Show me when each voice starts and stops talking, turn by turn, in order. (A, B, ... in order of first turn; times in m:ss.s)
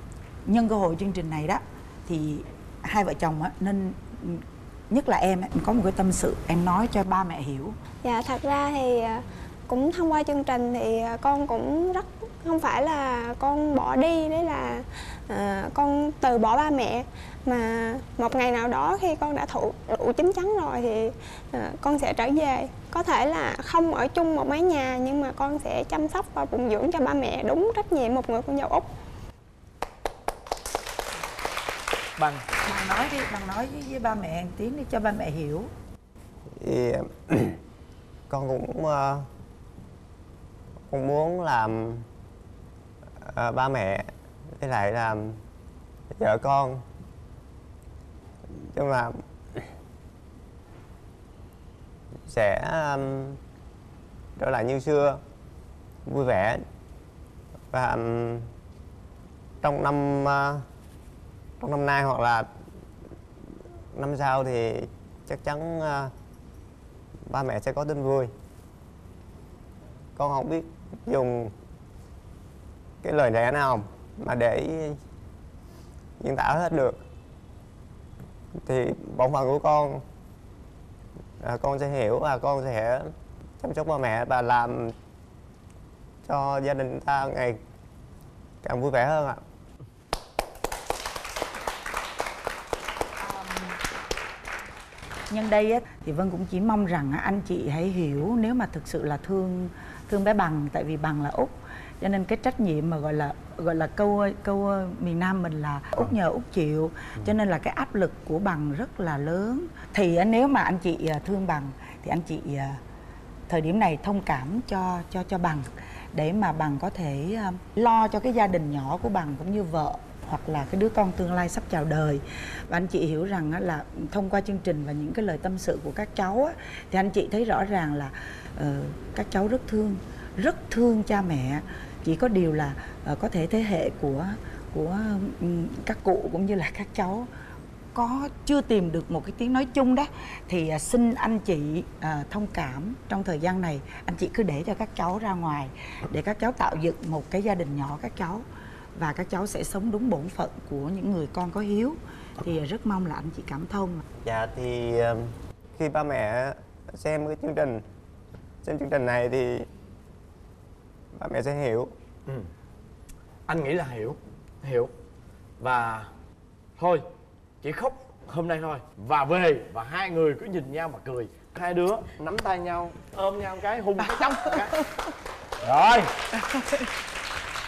0:00.4-0:07.8 A
0:08.0-0:28.9 B
0:32.2-0:32.4 C
0:32.6-0:35.7 A
0:36.6-0:37.6 D
0:38.3-0:39.2 D
0:40.9-0:42.1 D
0:43.2-0:44.1 D
0:44.6-0:45.4 D
0:46.2-0:46.8 D
0:48.5-0:49.7 D
0:52.3-0:53.4 D
0:54.4-0:55.2 D
0:56.0-0:56.6 D
0:57.7-0:58.5 D
0:59.6-1:00.6 D
1:01.6-1:02.5 D
1:03.9-1:06.1 D
1:07.3-1:08.3 D
1:10.2-1:11.5 D
1:13.0-1:15.0 D
1:16.2-1:17.0 D
1:18.6-1:20.0 D
1:21.4-1:24.9 D
1:26.2-1:27.6 D
1:28.6-1:29.4 D
1:33.2-1:33.7 A
1:35.3-1:52.8 A
1:53.5-2:17.3 A
2:17.9-2:28.4 A
2:29.0-2:34.0 A
2:34.2-2:37.8 D
2:38.6-2:39.7 D
2:41.2-2:41.9 D
2:43.5-2:44.9 C
2:45.6-2:46.1 C
2:46.8-2:47.0 C
2:47.6-2:54.7 C
2:54.0-2:55.1 A
2:55.6-2:56.1 C
2:56.3-2:56.8 A